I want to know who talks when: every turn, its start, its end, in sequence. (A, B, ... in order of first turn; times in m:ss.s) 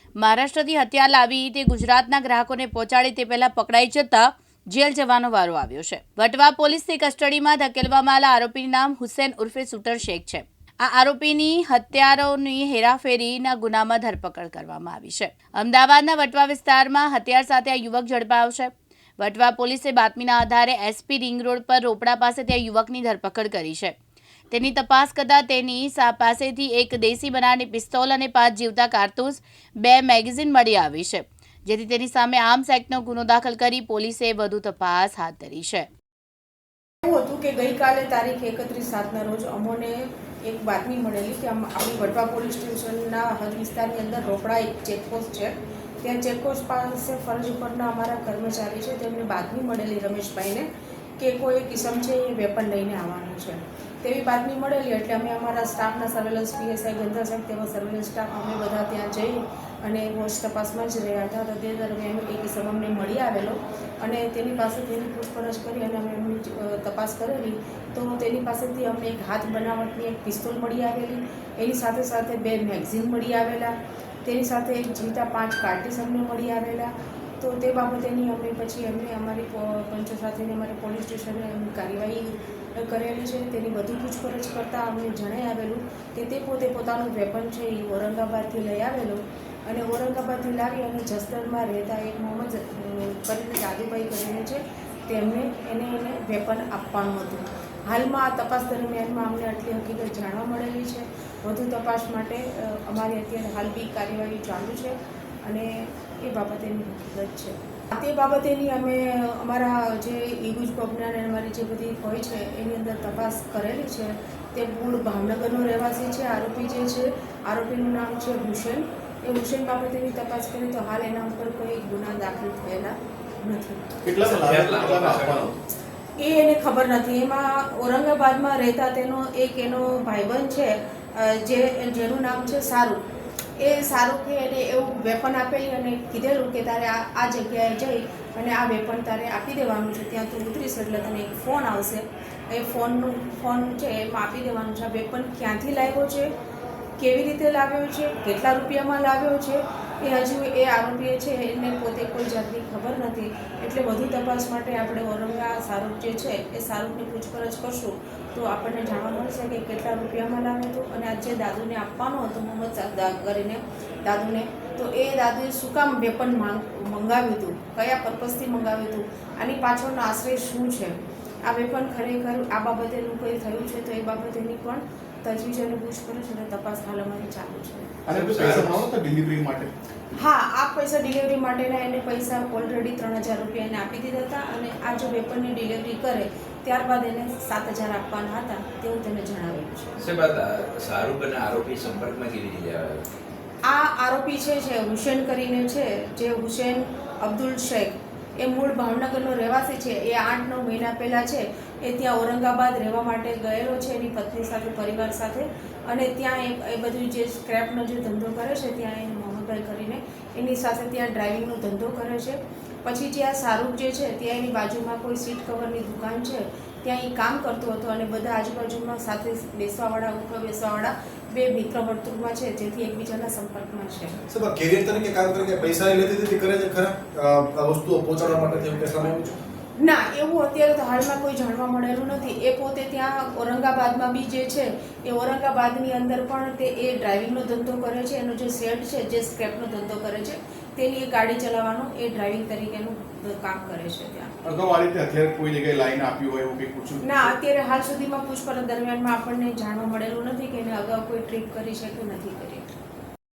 0:00.2-0:23.9 A
0:24.5-0:35.9 A
0:37.0-0:50.7 B
0:51.2-1:13.7 B
1:14.2-2:03.8 B
2:04.0-2:05.5 C
2:04.2-2:05.6 D
2:06.2-2:13.0 B
2:13.6-2:26.3 B
2:27.0-2:58.0 B
2:58.0-2:59.7 C
2:58.1-2:58.9 D
3:00.1-3:10.0 B
3:10.0-3:13.0 D
3:13.6-3:44.2 B
3:44.3-3:49.4 E
3:49.8-4:04.3 B
4:04.4-4:07.3 C
4:07.0-4:12.7 B